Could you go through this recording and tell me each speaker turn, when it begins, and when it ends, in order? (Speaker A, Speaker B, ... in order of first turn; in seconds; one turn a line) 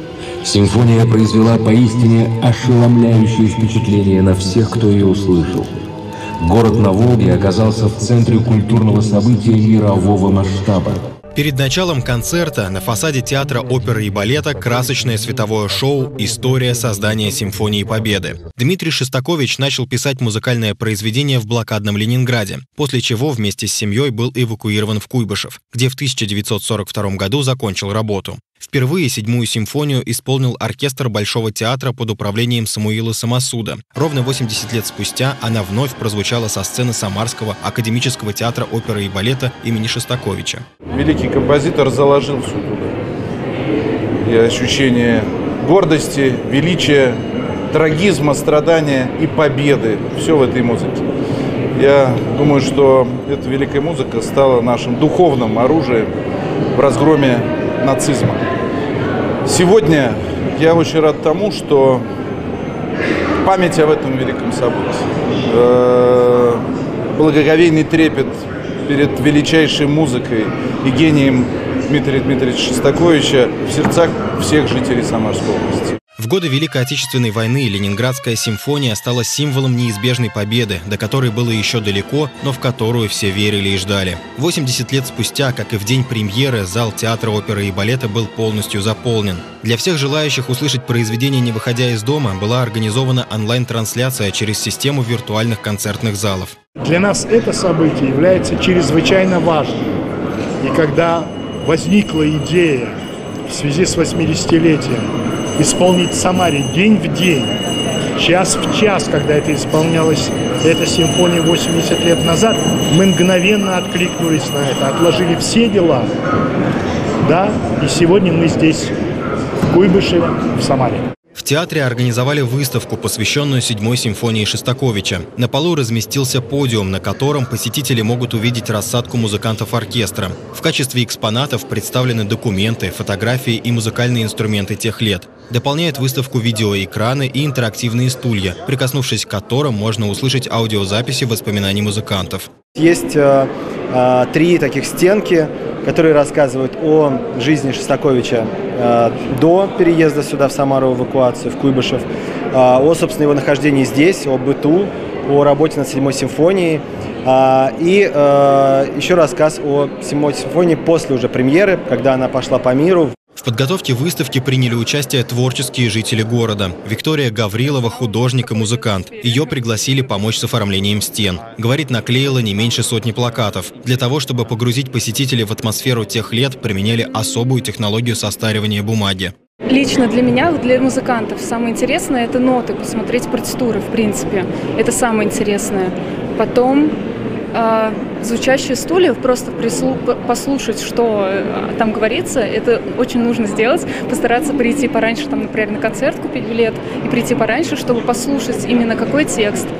Speaker A: 0.4-5.7
Speaker A: 6.4-11.0
Speaker B: 11.3-40.6
Speaker C: 40.9-42.9
Speaker C: 44.2-47.2
Speaker C: 47.7-51.0
Speaker C: 51.7-56.1
Speaker C: 56.7-58.4
Speaker C: 59.5-62.1
Speaker C: 63.4-66.6
Speaker C: 67.2-76.0
Speaker B: 76.2-96.5
Speaker D: 96.8-99.8
Speaker D: 100.6-103.0
Speaker D: 103.5-105.0
Speaker D: 105.6-107.5
Speaker D: 108.2-116.1
Speaker D: 117.2-118.9
Speaker D: 119.7-121.0
Speaker B: 121.4-142.5
Speaker E: 142.8-163.1
Speaker B: 163.4-179.3
Speaker F: 167.7-170.3
Speaker F: 179.7-186.9
Speaker F: 187.5-199.7